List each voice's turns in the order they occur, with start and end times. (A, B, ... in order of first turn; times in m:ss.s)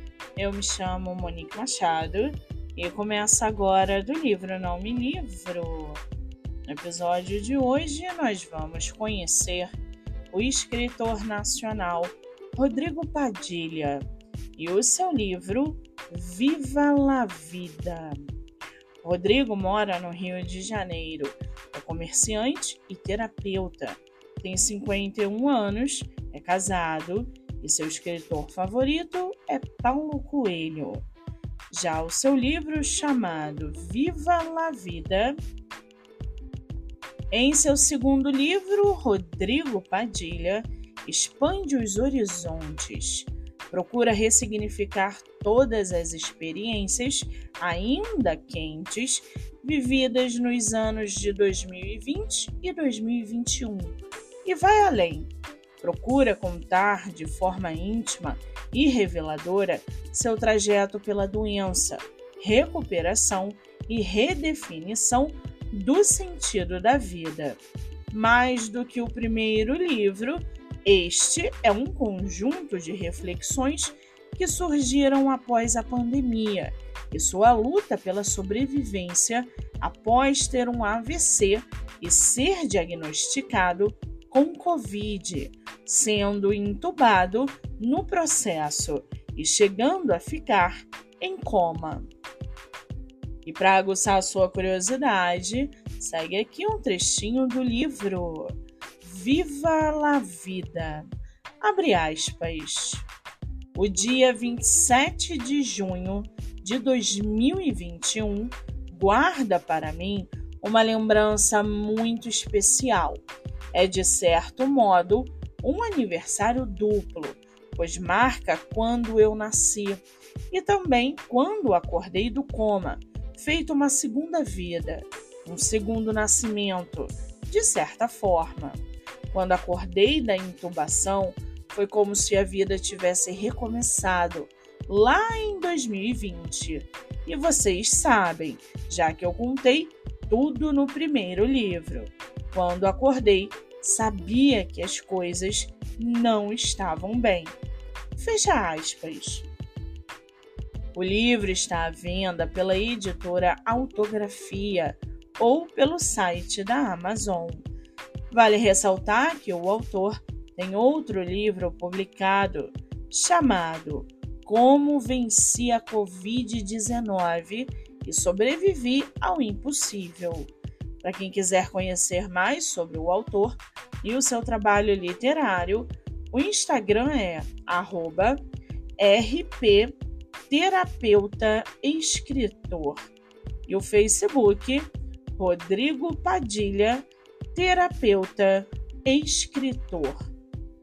0:00.4-0:06.0 A
0:06.7-0:09.7 A
0:10.3-0:14.0 A
0:14.6-0:18.2 A
0:19.0-0:31.0 A
0:31.7-0:35.4 A
0:37.3-1:07.6 A
1:08.1-1:32.1 A
1:33.4-1:41.1 A
1:41.6-1:43.1 A
1:43.7-2:08.8 A
2:09.3-2:27.6 A
2:28.2-2:29.5 A
2:30.9-2:37.7 A
2:38.3-2:58.4 A
2:59.0-3:00.0 A
3:00.5-3:03.0 A
3:03.7-3:10.2 A